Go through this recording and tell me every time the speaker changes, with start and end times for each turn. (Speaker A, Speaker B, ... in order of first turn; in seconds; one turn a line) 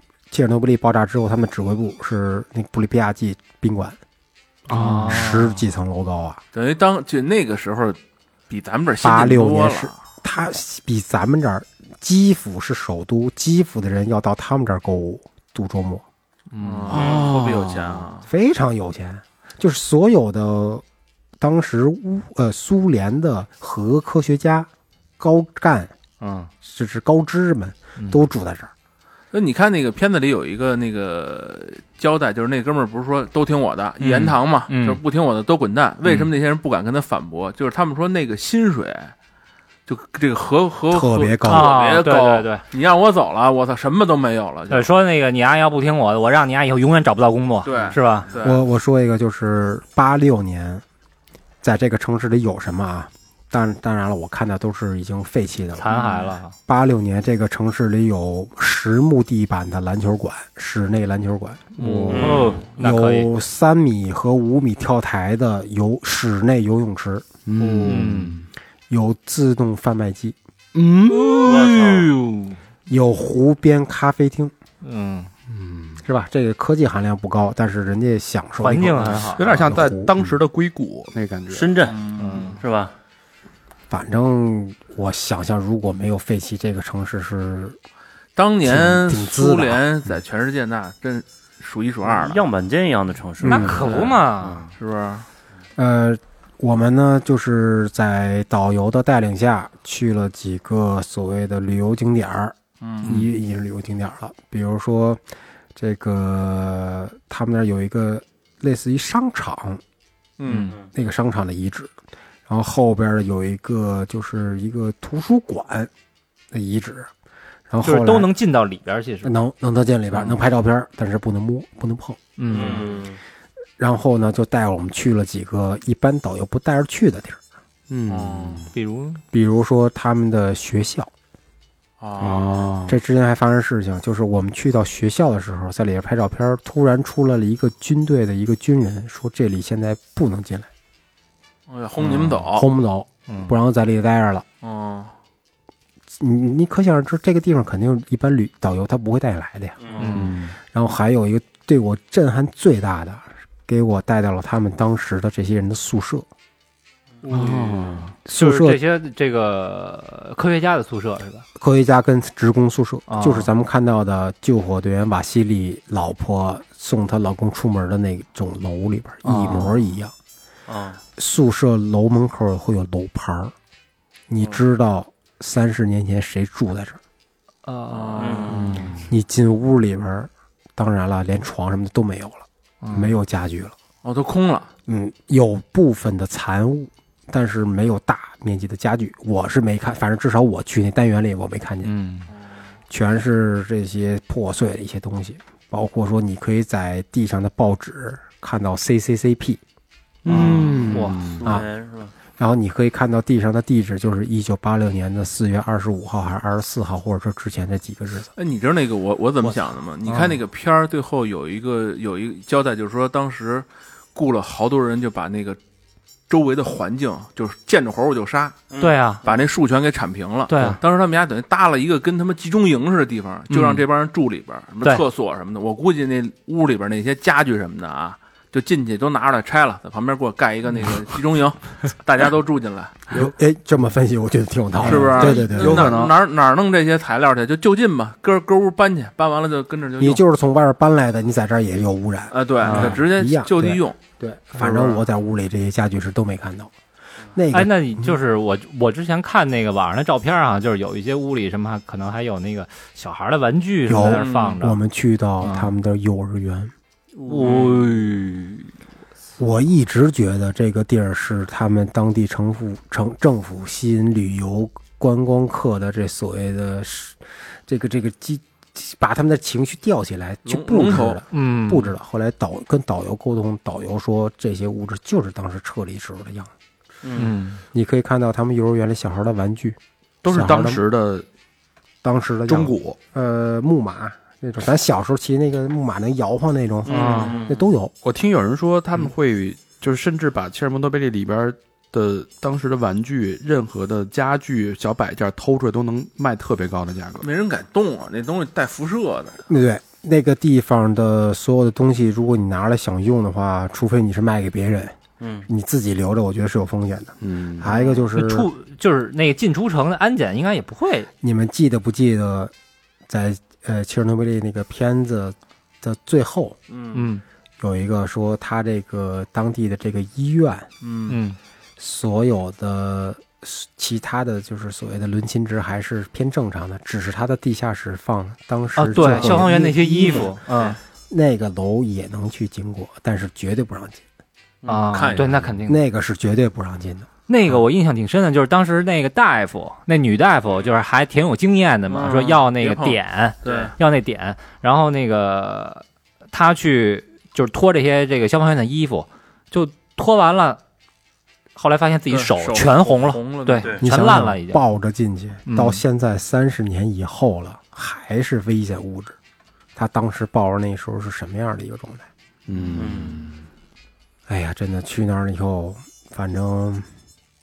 Speaker A: 0.3-4.0
Speaker B: 4.7-5.3
Speaker C: 4.7-5.6
Speaker A: 4.9-6.4
Speaker D: 6.5-10.0
Speaker A: 9.0-16.0
Speaker C: 16.5-17.0
Speaker D: 16.6-18.2
Speaker B: 16.9-18.1
Speaker E: 16.9-17.3
Speaker A: 18.2-20.8
Speaker A: 21.4-25.9
Speaker C: 26.2-26.5
Speaker A: 26.6-28.7
Speaker D: 29.3-39.1
Speaker C: 34.0-35.0
Speaker D: 39.9-44.9
Speaker A: 40.9-41.7
Speaker C: 41.4-42.6
Speaker C: 44.7-48.3
Speaker D: 47.6-48.6
Speaker A: 48.4-50.8
Speaker A: 51.6-55.9
Speaker C: 55.8-56.5
Speaker A: 56.6-68.2
Speaker B: 61.8-62.4
Speaker C: 61.8-63.3
Speaker E: 62.1-62.6
Speaker B: 67.5-68.5
Speaker C: 67.8-68.4
Speaker A: 68.9-70.3
Speaker B: 70.7-72.2
Speaker E: 71.4-72.1
Speaker A: 72.9-74.5
Speaker C: 74.8-75.3
Speaker B: 75.5-76.0
Speaker A: 76.0-80.1
Speaker C: 78.6-79.4
Speaker B: 79.3-81.7
Speaker E: 81.5-82.9
Speaker D: 81.8-82.6
Speaker C: 82.2-82.6
Speaker A: 83.9-87.8
Speaker D: 88.3-92.4
Speaker A: 88.6-89.8
Speaker E: 92.0-94.2
Speaker A: 93.4-93.8
Speaker C: 93.4-94.6
Speaker D: 93.8-94.2
Speaker D: 94.8-95.2
Speaker A: 95.8-105.2
Speaker D: 102.8-103.1
Speaker A: 105.7-109.8
Speaker D: 110.4-110.7
Speaker C: 110.5-110.7
Speaker A: 110.9-111.9
Speaker A: 112.5-115.9
Speaker A: 116.5-117.1
Speaker A: 117.7-118.3
Speaker C: 117.8-119.3
Speaker A: 119.2-122.2
Speaker C: 122.4-122.8
Speaker E: 122.5-123.2
Speaker D: 122.5-123.1
Speaker A: 123.8-127.4
Speaker B: 127.9-128.7
Speaker D: 128.1-128.7
Speaker C: 128.7-129.2
Speaker A: 129.3-131.1
Speaker D: 132.0-132.7
Speaker B: 132.2-133.0
Speaker A: 132.9-140.7
Speaker D: 141.7-142.7
Speaker A: 142.5-144.4
Speaker C: 143.3-143.6
Speaker D: 144.6-145.1
Speaker A: 146.2-149.8
Speaker E: 149.8-150.1
Speaker C: 150.0-150.4
Speaker B: 150.1-150.5
Speaker A: 150.7-156.3
Speaker C: 157.3-161.4
Speaker B: 157.3-158.1
Speaker A: 158.2-158.8
Speaker A: 161.6-170.1
Speaker C: 163.1-163.5
Speaker B: 169.2-169.7
Speaker E: 170.7-171.0
Speaker A: 171.2-173.5
Speaker A: 174.3-177.0
Speaker C: 177.7-178.9
Speaker D: 177.9-178.9
Speaker E: 178.2-178.8
Speaker A: 179.0-183.7
Speaker C: 182.8-183.1
Speaker D: 184.0-184.7
Speaker A: 184.9-191.9
Speaker C: 191.8-192.3
Speaker A: 192.9-199.6
Speaker B: 200.2-201.4
Speaker C: 200.3-201.2
Speaker E: 200.4-202.1
Speaker A: 202.4-208.3
Speaker D: 208.3-215.6
Speaker C: 210.1-210.4
Speaker D: 216.3-218.6
Speaker E: 218.7-219.4
Speaker C: 218.8-219.2
Speaker D: 219.2-233.0
Speaker C: 220.5-220.8
Speaker C: 223.5-223.8
Speaker A: 233.1-236.0
Speaker B: 234.8-236.2
Speaker D: 234.8-240.2
Speaker A: 240.0-246.7
Speaker D: 242.3-244.0
Speaker C: 242.6-243.0
Speaker D: 244.6-245.0
Speaker A: 247.3-248.2
Speaker C: 247.5-254.8
Speaker A: 253.9-256.7
Speaker D: 254.1-254.6
Speaker C: 255.4-255.7
Speaker D: 257.2-257.9
Speaker C: 257.2-258.7
Speaker A: 259.4-276.5
Speaker D: 270.4-271.2
Speaker C: 271.3-271.9
Speaker E: 277.0-277.3
Speaker C: 277.1-277.6
Speaker A: 277.7-280.8
Speaker B: 280.2-281.3
Speaker A: 282.0-287.9
Speaker B: 282.5-283.0
Speaker E: 286.9-287.7
Speaker C: 286.9-287.4
Speaker B: 288.0-297.2
Speaker D: 297.2-299.4
Speaker A: 299.5-304.9
Speaker E: 305.2-305.5
Speaker A: 305.5-308.5
Speaker B: 307.2-307.7
Speaker C: 308.1-311.1
Speaker A: 311.2-312.5
Speaker A: 313.1-316.6
Speaker D: 316.7-317.1
Speaker C: 316.9-317.2
Speaker A: 317.6-320.7
Speaker D: 320.8-321.2
Speaker C: 321.1-321.4
Speaker A: 321.8-330.4
Speaker C: 328.8-330.8
Speaker D: 329.0-329.4
Speaker D: 330.2-330.8
Speaker A: 331.1-334.0
Speaker D: 334.6-335.6
Speaker C: 334.7-335.8
Speaker A: 335.7-337.1
Speaker C: 337.3-350.6
Speaker D: 341.9-343.7
Speaker E: 343.4-343.7
Speaker C: 351.6-354.6
Speaker D: 352.1-353.8
Speaker A: 353.8-359.1
Speaker C: 355.5-355.8
Speaker A: 359.7-362.1
Speaker B: 362.5-363.5
Speaker E: 362.7-363.2
Speaker A: 364.3-366.9